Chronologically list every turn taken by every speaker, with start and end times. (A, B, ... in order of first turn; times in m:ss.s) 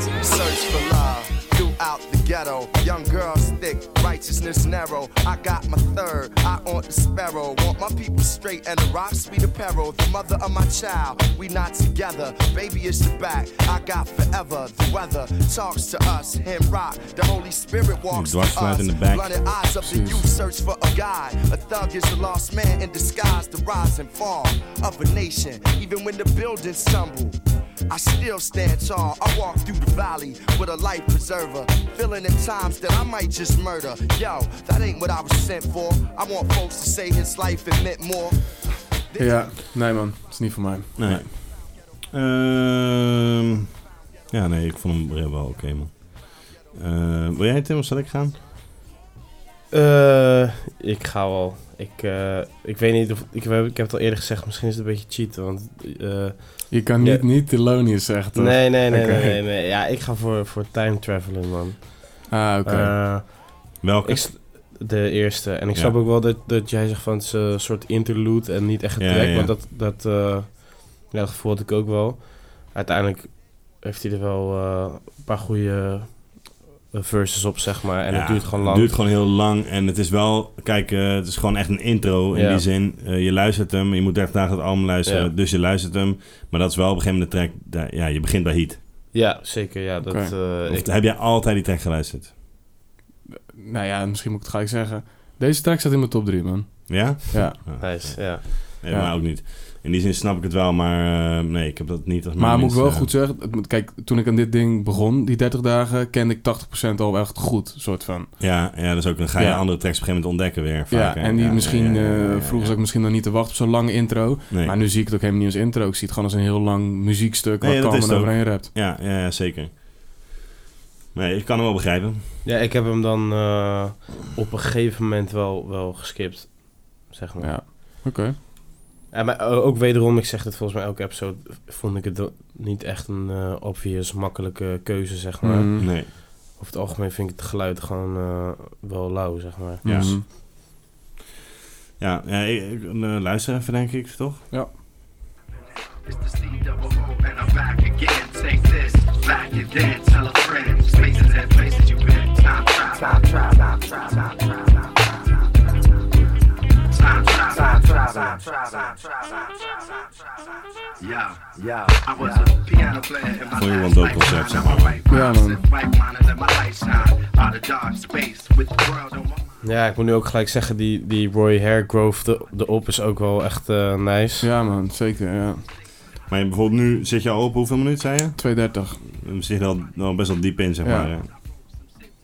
0:00.2-0:38.5 A
0:18.1-0:19.3 B
0:19.8-0:20.2 C
0:39.1-0:39.5 A
0:39.2-0:41.3 C
0:41.0-0:43.7 B
0:44.3-0:48.4 B
0:49.7-0:57.3 D
0:56.7-0:59.4 C
0:58.4-1:19.0 D
1:02.3-1:03.0 C
1:03.8-1:04.3 B
1:09.0-1:09.5 B
1:18.1-1:28.8 B
1:22.3-1:22.6 D
1:25.1-1:25.3 D
1:29.1-1:30.9 D
1:30.0-1:30.3 C
1:30.7-1:32.3 B
1:33.5-1:37.6 C
1:36.9-1:43.1 B
1:37.8-1:38.8 D
1:42.4-1:48.5 C
1:48.4-1:52.8 B
1:49.4-1:49.6 C
1:50.9-1:58.7 C
1:54.5-1:54.8 B
1:57.6-1:59.8 B
2:01.2-2:02.2 B
2:02.4-2:08.0 D
2:07.4-2:08.4 C
2:09.1-2:20.2 D
2:15.4-2:16.0 C
2:15.8-2:16.1 B
2:19.8-2:20.3 C
2:19.8-2:20.2 B
2:22.0-2:24.4 B
2:26.1-2:34.7 E
2:36.9-2:39.8 E
2:41.0-2:49.4 E
2:43.6-2:45.0 B
2:45.1-2:45.6 C
2:49.6-2:54.5 D
2:54.4-2:55.6 C
2:56.3-2:58.5 B
2:58.4-2:59.0 C
2:59.1-3:01.3 B
3:00.8-3:01.1 C